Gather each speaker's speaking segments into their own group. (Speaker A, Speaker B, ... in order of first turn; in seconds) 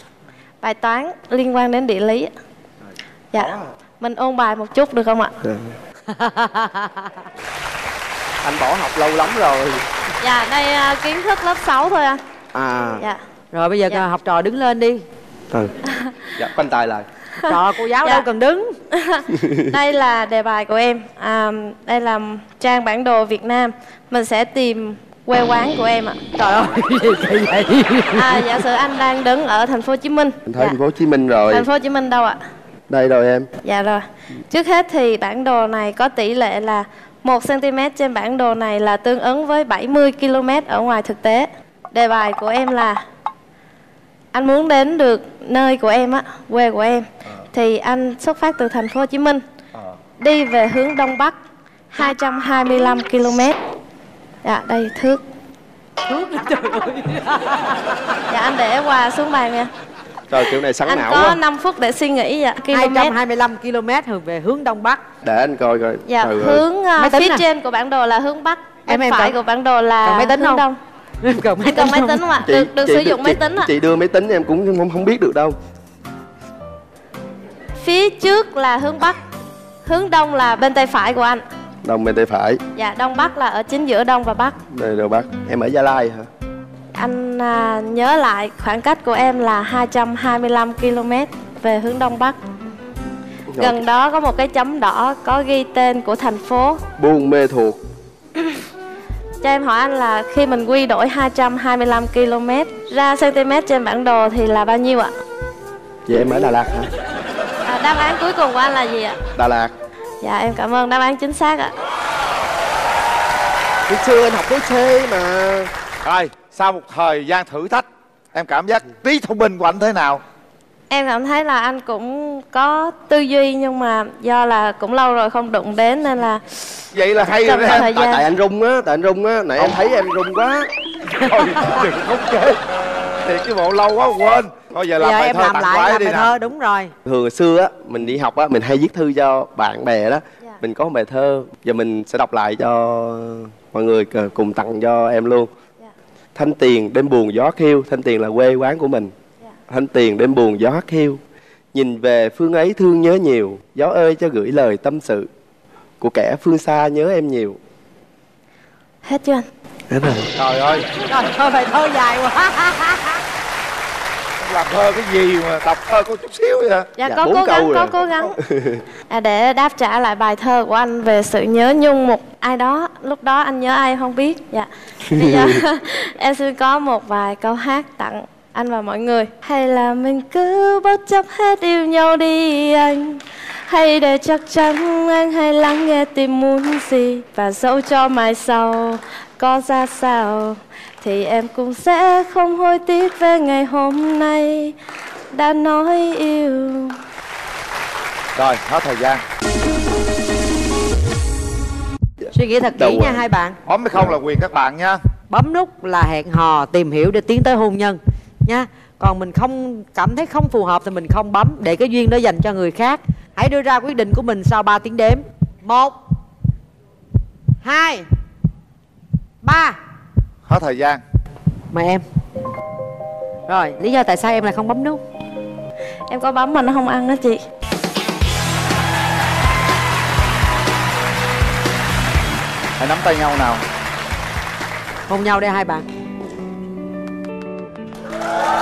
Speaker A: 0.6-2.3, 3.3-5.3, 10.2-12.2, 17.4-18.3, 18.9-26.2, 28.1-30.8, 31.5-32.4, 33.6-43.0, 44.3-49.4, 50.2-51.4, 51.9-53.6, 54.4-55.2, 58.3-59.7, 60.9-63.2, 66.1-70.8, 71.6-73.7, 77.8-79.2, 79.8-81.4, 82.8-84.6, 87.0-92.4, 93.6-96.8, 99.4-105.1, 107.7-109.2, 110.2-111.7, 120.9-126.7, 127.3-128.2, 159.1-159.4, 166.9-168.3, 169.1-194.8, 195.3-197.0, 226.1-227.4
Speaker B: 3.4-3.6, 5.4-5.7, 8.4-9.8, 12.5-13.1, 16.3-17.1, 19.4-19.7, 30.5-31.7, 32.9-33.5, 60.3-61.4, 65.2-66.6, 72.4-75.6, 81.8-82.6, 84.7-86.3, 93.5-93.8, 97.0-97.8, 106.1-106.9, 109.4-109.7, 113.9-115.7, 127.7-130.7, 137.1-145.5, 146.3-149.1, 149.7-151.2, 151.7-155.3, 156.0-157.6, 159.9-160.3, 167.1-168.8, 175.2-175.6, 202.7-203.3
Speaker C: 6.1-7.1, 13.5-15.0, 17.5-18.7, 26.4-28.6, 56.1-57.9, 62.7-65.0, 67.0-67.5, 68.9-69.4, 70.0-70.7, 71.2-72.2, 131.3-131.5, 135.0-136.9, 161.0-163.2, 202.3-203.6, 205.3-216.0, 217.6-218.1, 219.4-219.8, 221.7-222.0, 223.5-225.0, 235.1-235.9
Speaker D: 116.0-120.2, 126.9-127.9, 131.2-132.6, 133.2-136.3, 160.3-160.9, 164.4-166.9, 198.3-199.2, 203.7-205.0, 220.5-221.0, 232.8-233.6